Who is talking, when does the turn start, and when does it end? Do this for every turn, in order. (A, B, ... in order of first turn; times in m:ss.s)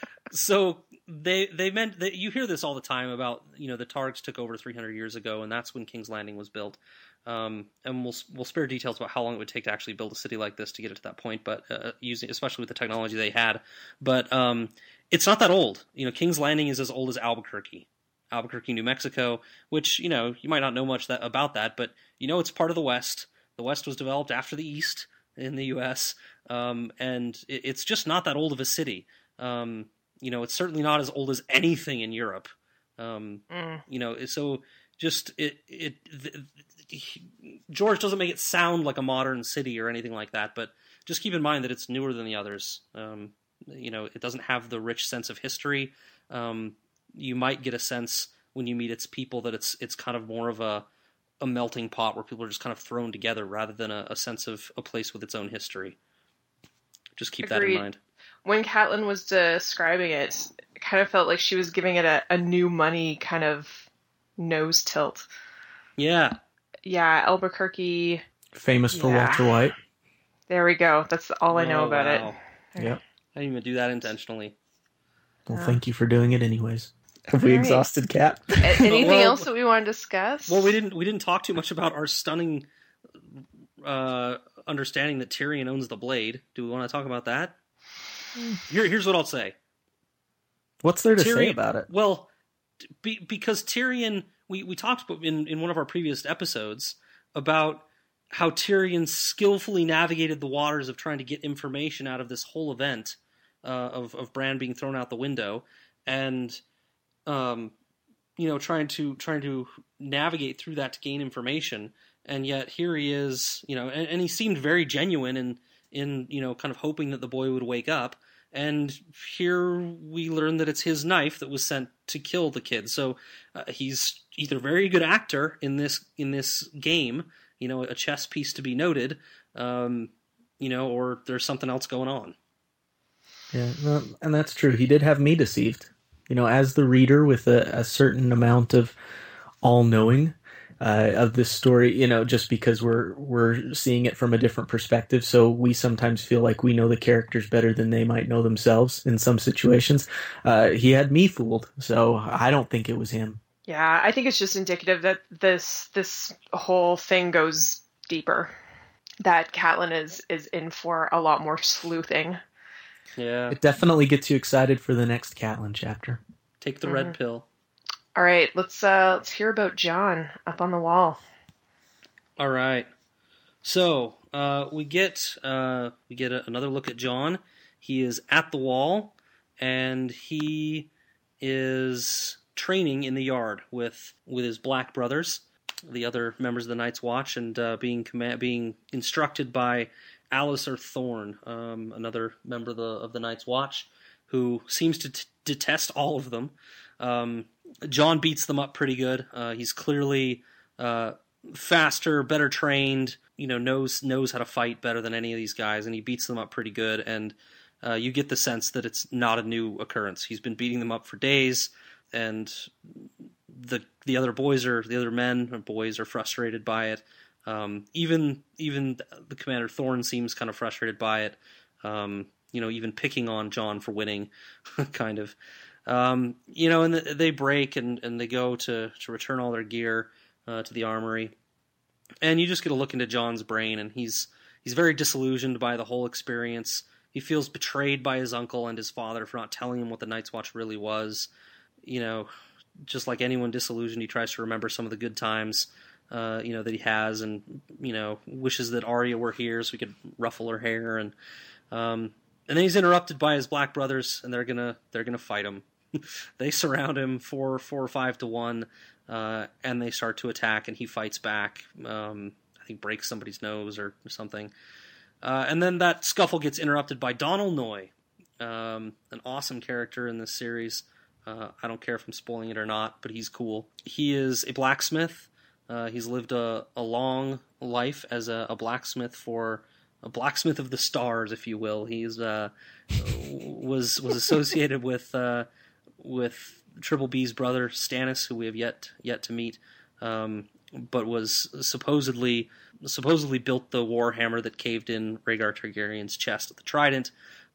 0:00.3-0:50.9 A
0:33.5-0:33.8 B
0:51.4-0:56.0 A
0:57.2-0:58.0 A
0:57.4-0:57.8 B
0:58.4-1:03.9 B
1:04.4-1:05.2 B
1:06.0-1:06.4 A
1:06.8-1:08.2 B
1:08.5-1:09.8 C
1:08.9-1:09.5 B
1:10.5-1:13.0 B
1:11.5-1:12.4 A
1:13.4-1:14.6 A
1:15.5-1:18.8 C
1:15.5-1:15.8 B
1:17.4-1:17.9 B
1:18.6-1:20.7 B
1:18.8-1:19.4 A
1:20.5-1:22.6 A
1:23.8-1:27.6 A
1:28.7-1:29.6 A
1:30.8-1:31.9 C
1:31.2-1:32.3 A
1:33.0-1:46.6 A
1:47.3-1:47.7 A
1:48.4-2:12.4 A
2:13.5-2:19.0 C
2:19.6-2:33.4 C
2:33.7-2:38.5 B
2:39.2-2:42.4 B
2:43.2-2:43.6 A
2:43.5-2:46.2 C
2:46.6-2:47.5 A
2:46.9-2:47.2 B
2:48.2-2:51.2 B
2:52.4-2:52.9 A
2:53.6-3:00.9 A
3:01.4-3:45.4 A
3:45.9-3:51.3 A
3:52.2-4:01.3 A
4:01.8-4:02.3 A
4:02.8-4:11.1 A
4:11.7-4:24.5 A
4:25.2-4:45.5 A
4:46.0-4:57.1 A